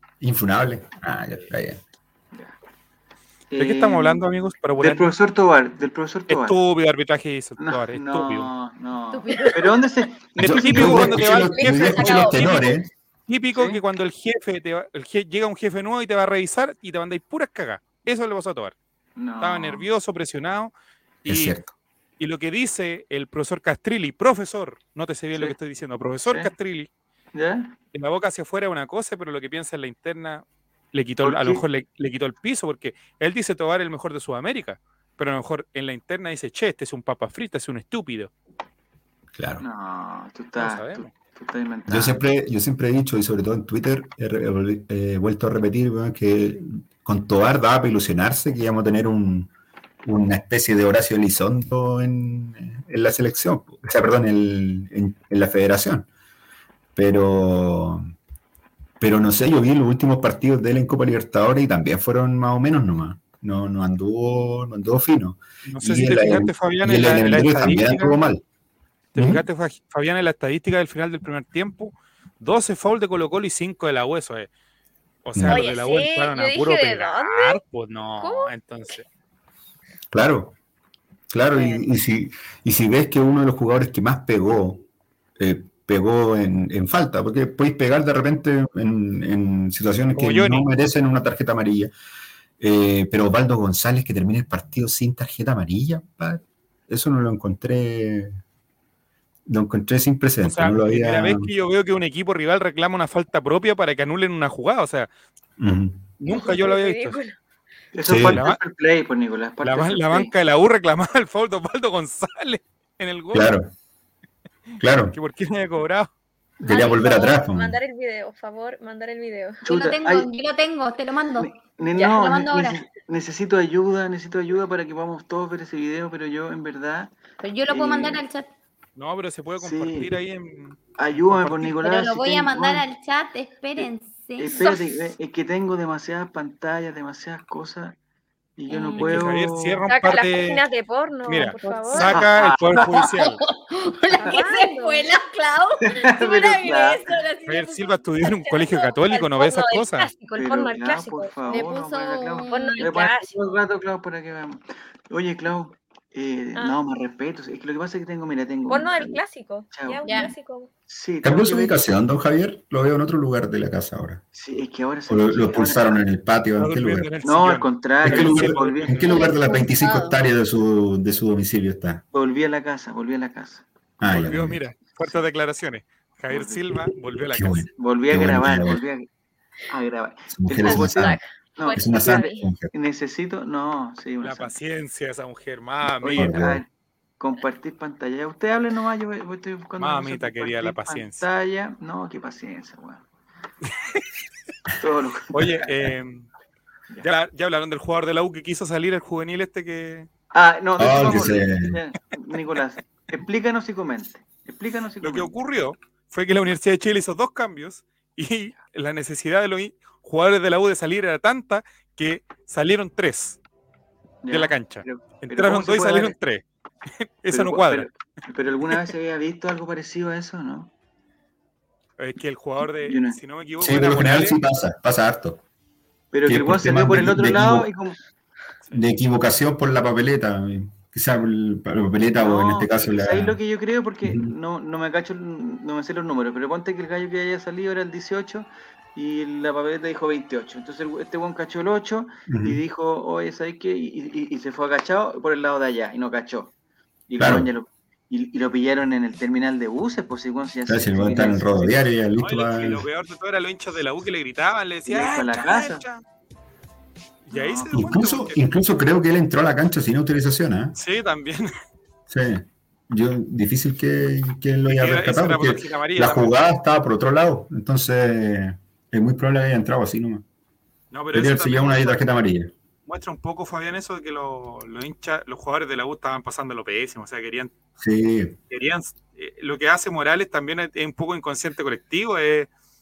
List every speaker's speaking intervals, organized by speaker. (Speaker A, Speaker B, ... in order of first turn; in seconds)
Speaker A: 0.2-1.8, 10.4-12.9, 21.3-21.7, 39.3-39.6, 41.9-49.5, 50.0-56.1, 56.9-58.1, 59.0-68.4, 69.1-69.4, 75.3-75.7, 80.1-80.5, 81.3-84.8, 85.4-91.9, 92.6-98.4, 99.5-101.5, 105.6-106.1, 108.0-108.4, 113.3-113.7, 114.8-115.2, 116.6-117.8, 161.2-164.2, 165.1-167.1, 168.0-172.0, 174.0-174.6, 177.1-178.8, 180.3-181.2, 181.7-182.7, 186.2-186.6, 200.8-201.8, 223.6-225.4, 226.3-227.7, 228.7-233.4, 234.0-234.3, 242.3-242.6, 247.2-247.5, 250.7-252.9, 257.7-260.8, 262.1-270.2, 271.1-272.5, 277.8-278.4
Speaker B: 2.3-2.6, 3.5-4.2, 4.8-6.6, 7.6-11.4, 13.5-13.8, 19.2-19.9, 26.2-26.5, 27.3-27.8, 31.2-31.6, 39.6-42.2, 107.9-110.3, 119.6-120.3, 121.4-127.1, 127.7-128.2, 129.6-130.1, 131.0-132.8, 133.8-138.0, 138.6-139.8, 142.0-143.1, 146.0-147.2, 150.3-159.2, 159.7-160.0, 160.9-161.8, 164.3-166.0, 167.2-169.2, 172.1-173.7, 175.0-175.2, 176.3-176.8, 177.8-179.1, 179.7-184.5, 186.0-193.1, 194.8-195.7, 200.3-205.3, 214.2-216.2, 217.3-220.7, 222.6-223.2, 226.1-228.0, 232.2-246.5, 247.1-251.8, 254.8-255.8, 257.3-258.0
Speaker C: 3.6-5.1, 6.3-8.5, 10.4-18.7, 19.4-20.7, 21.2-21.6, 22.2-26.9, 27.9-38.3, 40.6-41.1, 65.6-68.2, 69.1-74.5, 75.2-79.0, 90.1-90.7, 100.4-105.1, 106.2-107.2, 108.3-108.6, 109.6-113.5, 115.1-116.1, 128.9-131.8, 138.9-140.6, 141.2-143.4, 147.5-150.1, 166.6-169.5, 174.1-177.7, 184.2-186.3, 189.8-191.3, 195.3-196.3, 197.0-200.1, 205.0-213.4, 214.3-216.4, 217.2-217.9, 222.0-224.4, 252.2-256.0, 257.2-258.4, 260.8-261.5, 264.6-266.4, 270.9-272.1, 272.9-277.5, 278.5-282.5
Speaker D: 9.1-9.8, 119.7-122.8, 127.4-128.5, 131.8-135.0, 138.7-139.2, 141.6-142.2, 142.7-148.1, 151.5-152.8, 160.1-160.3, 169.1-170.2
Speaker E: 11.6-12.4, 75.4-77.6, 78.2-79.0, 106.2-107.4, 116.6-119.6, 139.9-142.1, 144.2-145.1, 148.5-151.4, 152.5-153.4, 158.7-160.7, 180.6-182.4